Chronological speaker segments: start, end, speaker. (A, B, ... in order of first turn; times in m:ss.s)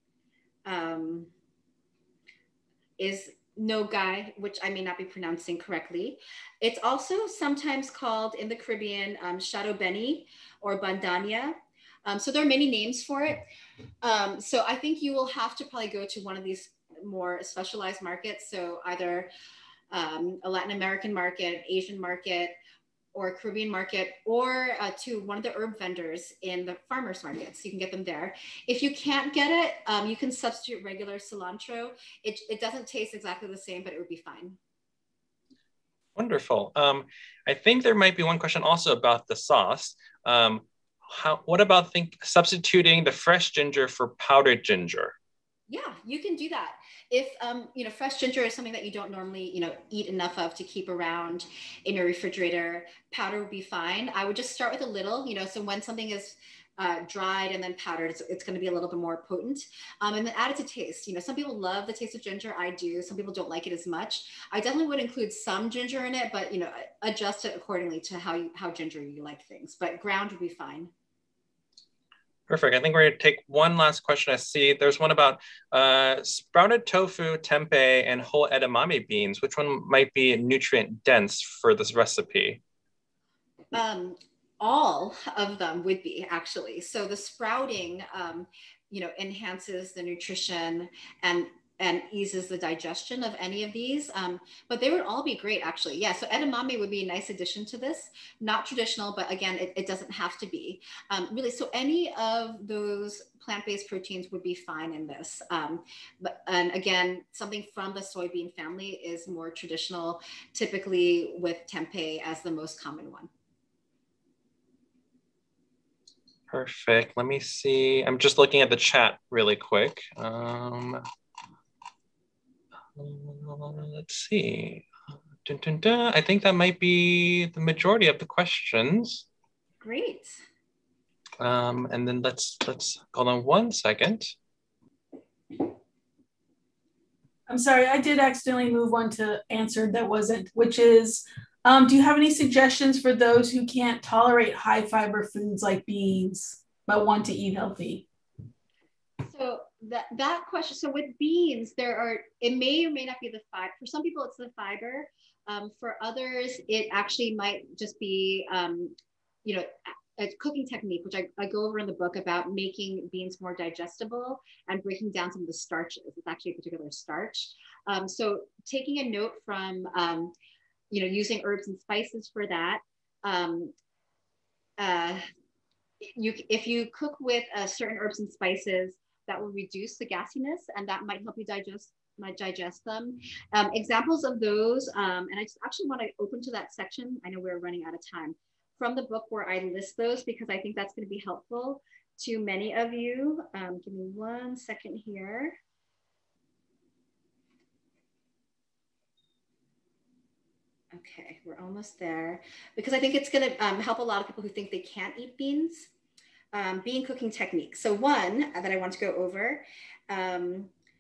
0:00.6-0:01.3 A
0:03.0-0:13.4 A
0:14.0-0:19.3 A
0:19.9-0:22.6 A
0:23.1-0:34.6 A
0:36.2-0:45.2 B
0:45.7-1:10.9 A
1:12.5-1:22.6 B
1:23.7-1:53.3 A
1:56.5-2:01.0 B
2:03.0-2:04.9 B
2:05.4-2:09.2 B
2:09.8-2:10.4 A
2:11.4-2:14.3 B
2:17.5-2:28.1 C
2:29.2-2:50.3 A
2:50.9-2:53.7 A
2:54.8-2:55.2 A
2:56.0-3:15.6 A
3:20.9-3:25.9 A
3:26.5-3:30.7 A